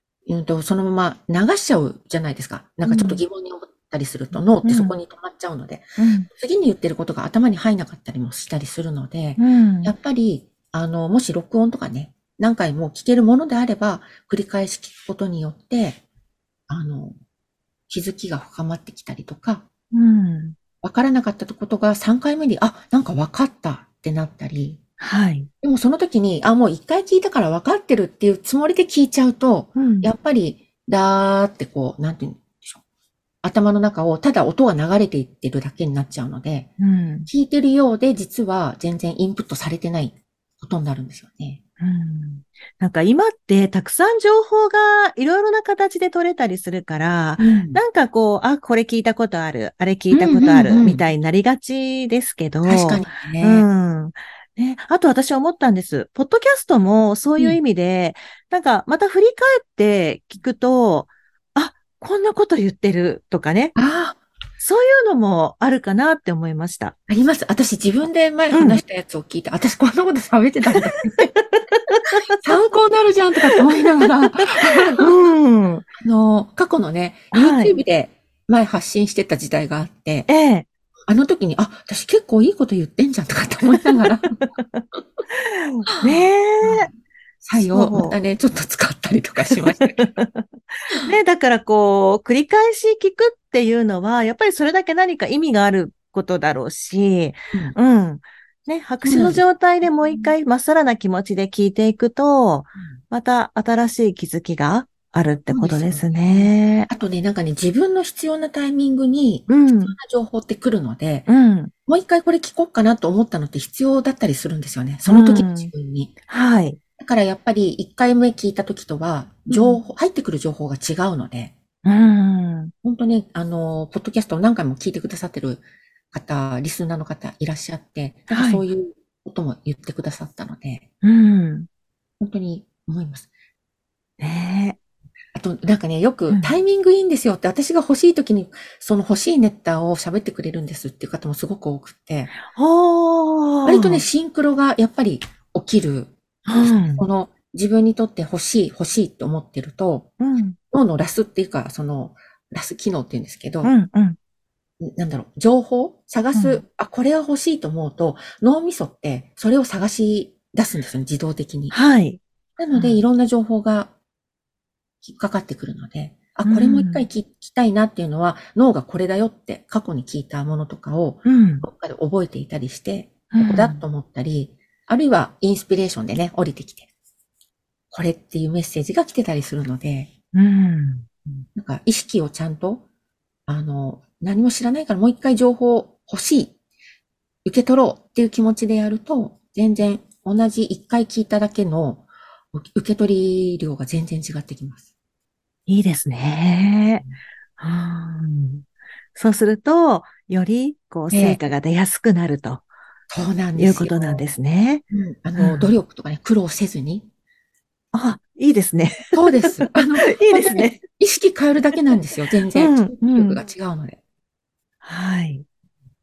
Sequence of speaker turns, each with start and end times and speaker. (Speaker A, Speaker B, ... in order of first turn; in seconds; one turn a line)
Speaker A: 0.3-16.0
Speaker B: 2.9-3.2
Speaker B: 4.6-5.0
Speaker B: 6.0-6.3
Speaker B: 9.4-9.9
Speaker A: 16.7-17.2
Speaker A: 17.9-19.6
Speaker B: 19.9-20.6
Speaker A: 20.8-24.8
Speaker B: 25.0-25.5
Speaker A: 25.6-32.8
Speaker B: 29.8-30.1
Speaker A: 33.4-36.7
Speaker B: 36.8-37.3
Speaker A: 37.3-41.6
Speaker B: 41.8-63.7
Speaker A: 47.4-47.8
Speaker A: 50.1-51.0
Speaker A: 52.6-53.7
Speaker A: 63.8-64.2
Speaker B: 64.6-67.0
Speaker A: 67.1-71.3
Speaker B: 68.5-68.8
Speaker B: 70.8-72.4
Speaker A: 72.4-75.0
Speaker B: 74.2-75.8
Speaker A: 76.0-80.3
Speaker B: 77.3-77.8
Speaker B: 80.3-80.7
Speaker A: 81.1-84.3
Speaker B: 83.8-86.9
Speaker A: 86.0-86.9
Speaker A: 87.4-90.1
Speaker B: 87.6-88.2
Speaker B: 89.5-90.5
Speaker B: 91.0-106.9
Speaker A: 99.0-99.4
Speaker A: 105.5-111.3
Speaker B: 109.5-110.0
Speaker B: 111.3-111.7
Speaker A: 111.9-116.1
Speaker B: 115.1-115.7
Speaker B: 116.3-116.8
Speaker A: 117.0-121.5
Speaker B: 119.5-119.8
Speaker B: 121.8-122.7
Speaker A: 122.8-130.9
Speaker B: 128.3-128.6
Speaker B: 131.0-131.7
Speaker A: 132.2-133.3
Speaker B: 134.2-134.8
Speaker A: 135.3-142.3
Speaker B: 142.5-144.0
Speaker A: 143.7-150.1
Speaker B: 146.5-147.1
Speaker B: 150.2-150.6
Speaker A: 150.7-153.7
Speaker B: 153.6-154.2
Speaker A: 154.8-161.8
Speaker B: 156.3-156.6
Speaker B: 161.7-162.2
Speaker A: 162.6-163.9
Speaker B: 162.7-163.0
Speaker A: 165.0-176.9
Speaker B: 166.5-167.1
Speaker B: 171.3-171.7
Speaker B: 173.3-173.8
Speaker A: 177.9-180.1
Speaker B: 180.3-181.1
Speaker A: 181.6-182.8
Speaker A: 183.5-186.5
Speaker A: 187.4-194.9
Speaker B: 195.7-197.0
Speaker B: 197.6-202.7
Speaker A: 201.1-201.4
Speaker A: 203.1-204.3
Speaker B: 203.6-204.8
Speaker A: 204.9-207.1
Speaker B: 205.4-205.8
Speaker B: 207.9-210.8
Speaker A: 209.1-214.0
Speaker B: 212.6-213.4
Speaker B: 214.8-215.4